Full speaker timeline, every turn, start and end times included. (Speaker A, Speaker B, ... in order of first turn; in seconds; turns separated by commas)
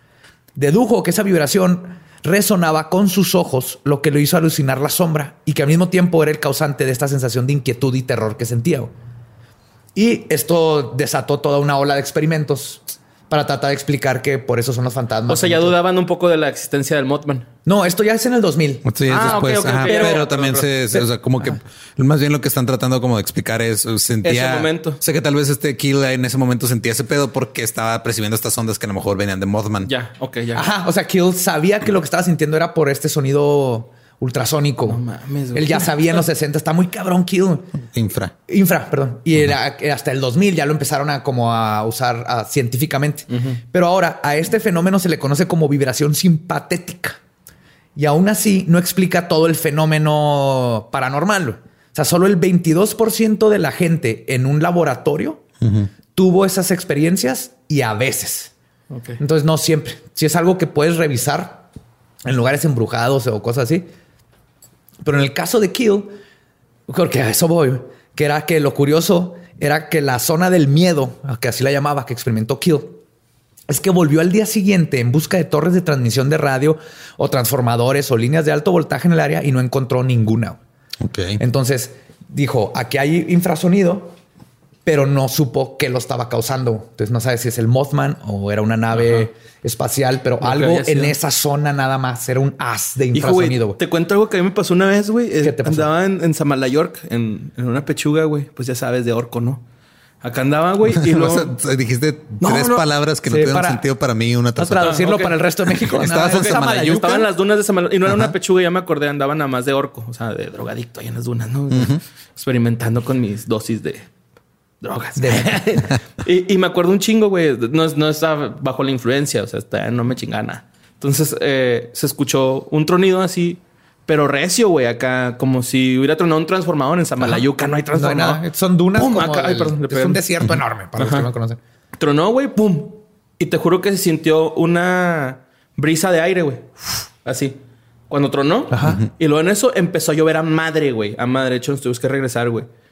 Speaker A: 0.6-8.9, Speaker A: 9.9-15.7, Speaker B: 15.3-17.5, Speaker A: 17.7-20.3, Speaker C: 18.9-29.9, Speaker B: 19.1-20.7, Speaker A: 20.9-21.6, Speaker B: 24.2-25.0, Speaker B: 29.9-30.7, Speaker A: 30.6-35.0, Speaker B: 34.9-36.1, Speaker A: 35.5-37.8, Speaker C: 37.9-38.3, Speaker A: 38.5-47.2, Speaker B: 43.3-43.6, Speaker A: 48.0-55.4, Speaker C: 55.6-55.9, Speaker A: 56.1-58.5, Speaker B: 58.9-59.2, Speaker A: 59.2-61.6, Speaker A: 62.3-63.9, Speaker A: 65.0-66.1, Speaker A: 66.9-73.0, Speaker A: 73.7-80.6, Speaker C: 81.0-81.4, Speaker A: 81.4-84.2, Speaker A: 84.8-93.8, Speaker B: 90.4-91.2, Speaker B: 93.1-99.6, Speaker A: 95.4-95.9, Speaker B: 100.2-101.5, Speaker C: 100.9-105.1, Speaker B: 102.4-102.8, Speaker A: 103.3-103.8, Speaker A: 104.6-107.2, Speaker B: 104.8-105.3, Speaker C: 105.7-107.2, Speaker B: 106.2-114.1, Speaker C: 111.7-112.0, Speaker B: 114.8-128.4, Speaker A: 115.2-115.7, Speaker A: 127.2-131.6, Speaker B: 128.9-130.2, Speaker B: 131.0-131.3, Speaker B: 132.0-137.6, Speaker B: 138.1-142.7, Speaker A: 138.7-139.0